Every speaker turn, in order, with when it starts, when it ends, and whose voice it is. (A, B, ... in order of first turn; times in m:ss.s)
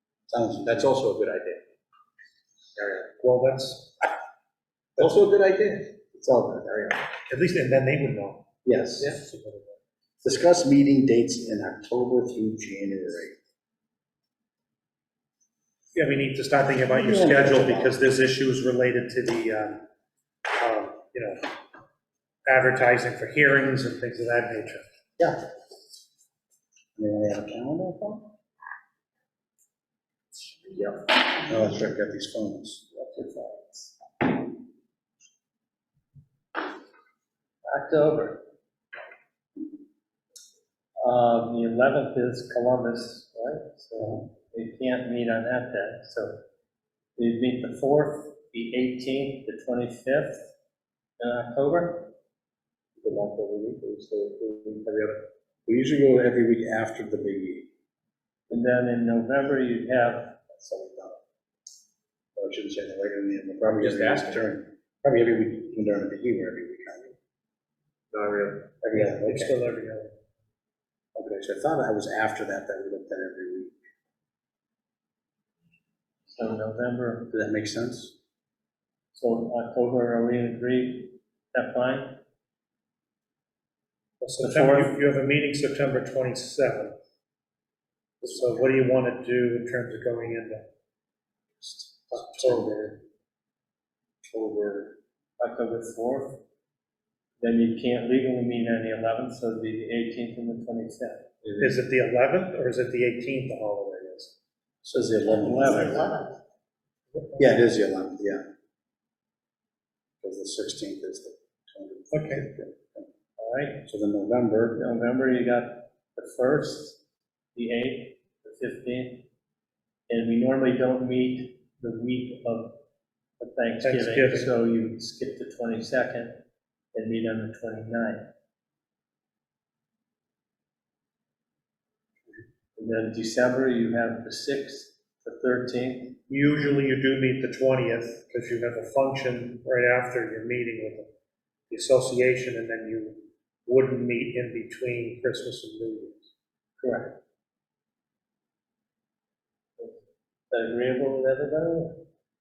0:00.3-0:00.9 A
0:00.6-0:01.6 B
0:02.8-0:03.1 B
0:03.2-0:03.9 C
0:05.0-0:05.9 B
0:06.1-0:06.9 A
0:06.6-0:07.0 B
0:07.3-0:08.4 C
0:08.6-0:09.1 A
0:09.0-0:09.8 C
0:10.2-0:13.4 A
0:15.9-0:19.8 C
0:16.9-0:18.0 A
0:20.6-0:21.4 C
0:22.4-0:24.8 C
0:27.0-0:28.3 A
0:31.3-0:32.8 A
0:32.9-0:33.9 D
0:37.7-0:38.4 D
0:41.0-0:46.4 D
0:47.2-0:50.4 D
0:51.2-0:52.1 D
0:53.0-0:55.2 B
0:55.6-0:57.6 A
0:58.5-1:00.3 D
1:00.5-1:01.2 A
1:02.4-1:07.1 A
1:03.8-1:04.4 B
1:08.1-1:08.6 B
1:08.8-1:09.5 A
1:08.9-1:10.1 C
1:11.2-1:13.7 A
1:16.4-1:17.3 D
1:17.3-1:18.1 A
1:19.1-1:22.2 D
1:24.2-1:26.9 C
1:24.4-1:25.0 D
1:28.2-1:30.6 C
1:31.6-1:32.7 A
1:32.2-1:32.9 C
1:34.3-1:34.9 B
1:35.4-1:36.4 D
1:37.4-1:41.2 D
1:41.4-1:41.8 B
1:41.6-1:44.3 C
1:44.8-1:46.1 A
1:45.2-1:46.3 D
1:45.6-1:46.1 C
1:47.2-1:47.5 C
1:47.4-1:48.4 A
1:50.2-1:53.1 A
1:52.1-1:52.5 C
1:53.4-1:53.8 D
1:53.8-1:54.8 A
1:54.7-1:57.0 D
1:57.5-1:59.2 D
2:00.1-2:02.8 D
2:03.4-2:06.4 D
2:03.8-2:04.5 C
2:06.9-2:08.2 D
2:12.8-2:16.1 D
2:16.3-2:21.1 C
2:21.7-2:26.2 C
2:26.8-2:27.2 D
2:30.5-2:32.0 D